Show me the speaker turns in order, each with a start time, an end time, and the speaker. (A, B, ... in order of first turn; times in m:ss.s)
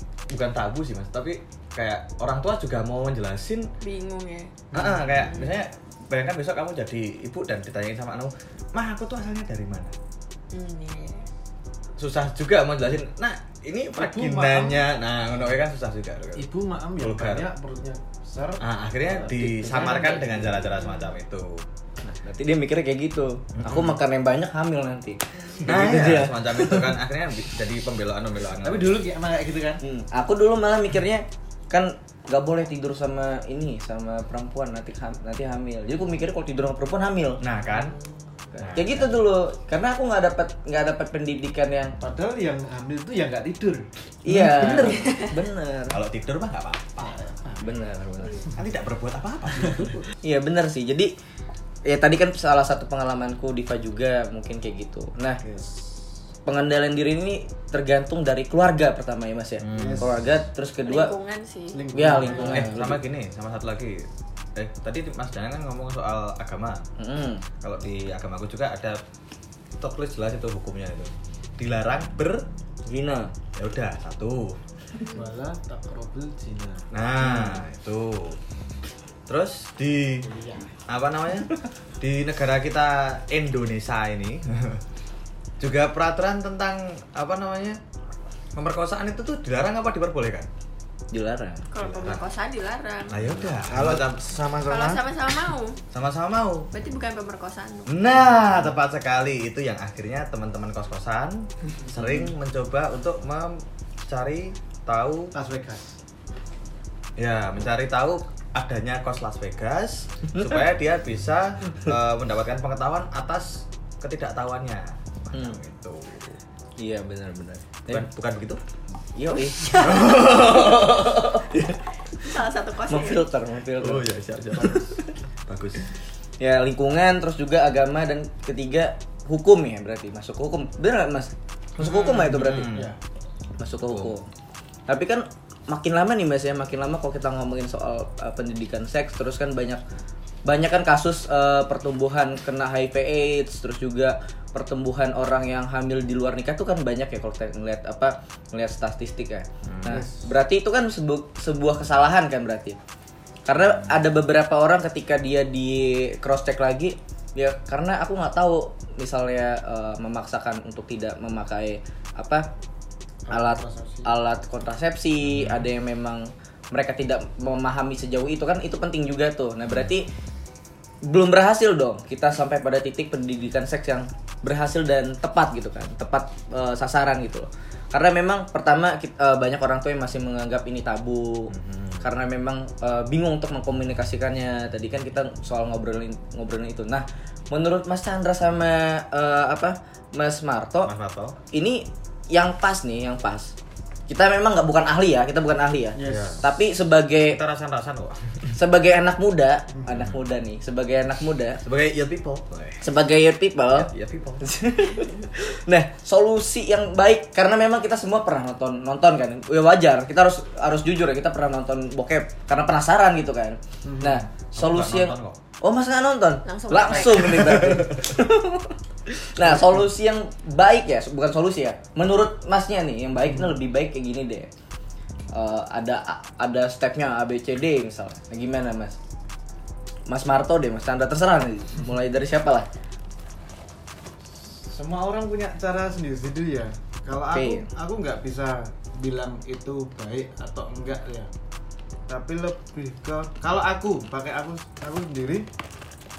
0:00.3-0:03.7 A
0:03.8-0:04.6 B
0:04.7-0:05.5 C
0:04.7-0:10.0 A
0:10.5-0:11.2 B
0:12.0-0:16.5 A
0:14.0-0:14.8 C
0:16.4-0:18.6 C
0:17.0-0:17.5 A
0:18.6-0:21.6 A
0:19.1-0:20.6 D
0:19.2-0:20.5 C
0:22.1-0:27.0 D
0:23.6-0:24.0 A
0:25.6-0:29.0 A
0:28.6-0:29.8 C
0:29.8-0:37.4 D
0:37.4-0:38.0 A
0:37.7-0:38.0 C
0:38.5-0:42.0 D
0:38.6-0:39.2 A
0:42.0-0:43.9 C
0:44.2-0:46.0 D
0:44.3-0:45.2 A
0:44.6-0:45.0 C
0:45.9-0:47.2 A
0:47.0-0:47.8 C
0:47.6-0:48.5 D
0:48.6-0:50.1 A
0:49.6-0:49.9 C
0:50.2-0:51.1 D
0:51.9-0:55.4 D
0:55.4-0:55.9 C
0:56.5-1:01.1 D
0:59.6-1:00.2 A
0:59.7-1:00.4 C
1:00.8-1:01.8 B
1:01.7-1:02.8 C
1:01.9-1:03.0 D
1:02.4-1:06.8 A
1:07.0-1:07.4 D
1:07.6-1:09.0 A
1:09.8-1:12.5 A
1:12.9-1:13.3 D
1:13.6-1:14.6 A
1:15.1-1:16.9 C
1:16.9-1:18.4 A
1:17.2-1:17.6 D
1:19.3-1:20.3 A
1:20.2-1:20.7 C
1:20.9-1:24.8 A
1:25.6-1:27.8 A
1:28.6-1:30.5 A
1:31.1-1:31.7 D
1:31.7-1:33.2 B
1:31.8-1:32.3 A
1:33.1-1:34.3 A
1:33.2-1:33.5 D
1:33.7-1:35.1 C
1:34.7-1:35.8 B
1:35.9-1:36.7 A
1:36.7-1:37.9 B
1:37.9-1:45.3 A
1:45.3-1:46.0 C
1:47.2-1:56.4 A
1:55.3-1:55.6 D
1:56.8-1:58.1 D
1:57.9-1:58.6 A
1:59.1-2:01.8 D
1:59.6-2:00.2 B
1:59.8-2:01.2 A
2:02.2-2:03.2 B
2:02.9-2:05.1 D
2:03.8-2:05.9 A
2:06.4-2:12.7 D
2:11.8-2:12.9 A
2:12.7-2:13.0 C
2:13.6-2:14.3 D
2:13.9-2:14.1 A
2:14.9-2:19.8 D
2:20.4-2:32.8 D
2:29.6-2:30.0 A
2:29.9-2:30.3 C
2:33.4-2:42.5 D
2:33.6-2:34.0 A
2:43.3-2:44.1 C
2:43.3-2:50.1 D
2:45.2-2:45.7 A
2:51.0-3:10.9 D
3:01.5-3:02.1 A
3:10.8-3:11.4 A
3:11.5-3:13.5 D
3:14.1-3:17.4 D
3:16.0-3:16.5 C
3:16.0-3:16.4 A
3:17.2-3:18.5 A
3:18.6-3:21.6 D
3:19.7-3:20.0 C
3:19.9-3:20.2 A
3:21.6-3:22.9 A
3:22.8-3:23.9 D
3:23.7-3:24.4 A
3:24.4-3:44.5 D
3:33.8-3:34.3 C
3:34.5-3:35.4 A
3:36.4-3:37.5 B
3:37.4-3:37.9 A
3:45.3-3:49.0 D
3:50.1-3:52.7 D
3:54.5-4:01.3 C
3:57.3-3:57.7 D
4:02.1-4:05.5 C